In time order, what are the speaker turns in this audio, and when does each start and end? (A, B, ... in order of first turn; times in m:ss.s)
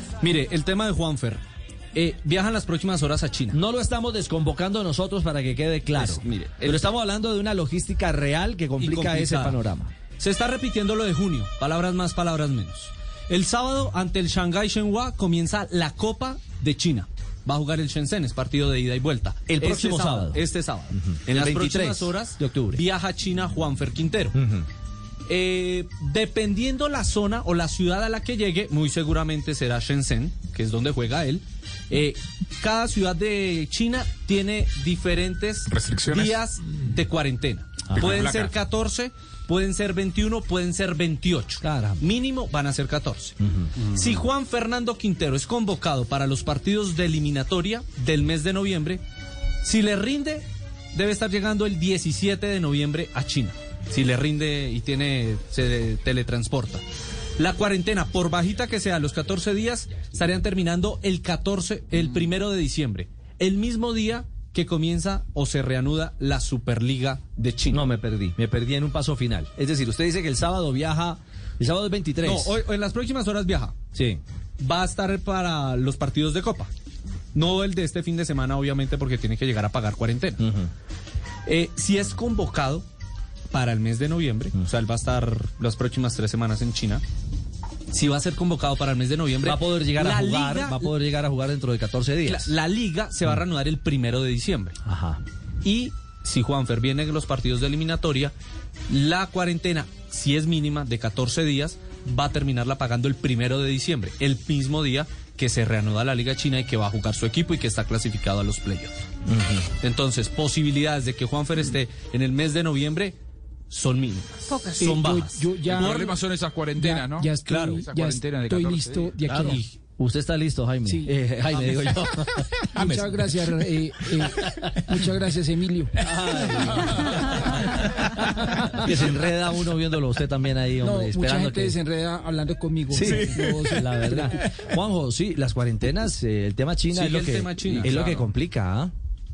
0:00.2-0:01.4 A
0:01.9-0:03.5 A
0:03.5-0:09.9 B
0:06.0-0:06.8 A
0:08.8-0:09.6 A
0:10.2-0:24.4 A
0:19.5-0:20.4 B
0:20.9-0:22.8 B
0:24.3-0:24.7 B
0:25.3-0:49.0 A
0:35.7-0:36.4 C
0:38.0-0:38.5 C
0:41.6-0:42.0 B
0:49.6-0:56.8 A
0:57.4-1:07.8 A
1:07.7-1:12.6 B
1:12.2-1:13.7 A
1:13.9-1:14.2 B
1:14.6-1:16.7 A
1:17.3-1:20.4 A
1:20.4-1:20.7 B
1:21.4-1:22.8 A
1:23.5-1:27.0 A
1:27.9-1:30.9 A
1:29.4-1:32.5 B
1:32.2-1:34.8 A
1:34.8-1:35.2 B
1:35.6-1:38.3 A
1:38.9-1:48.9 A
1:49.3-1:49.6 B
1:49.8-1:53.2 A
1:53.7-1:56.2 A
1:54.7-1:56.0 D
1:55.7-1:59.2 C
1:56.8-1:59.6 D
1:57.4-1:57.8 A
1:59.3-2:03.3 B
1:59.3-1:59.7 A
2:00.8-2:01.1 D
2:01.5-2:02.2 A
2:02.7-2:05.9 D
2:04.4-2:04.8 B
2:06.0-2:11.8 B
2:07.4-2:07.9 D
2:08.5-2:08.8 D
2:10.8-2:14.2 D
2:12.9-2:18.9 B
2:16.9-2:18.3 A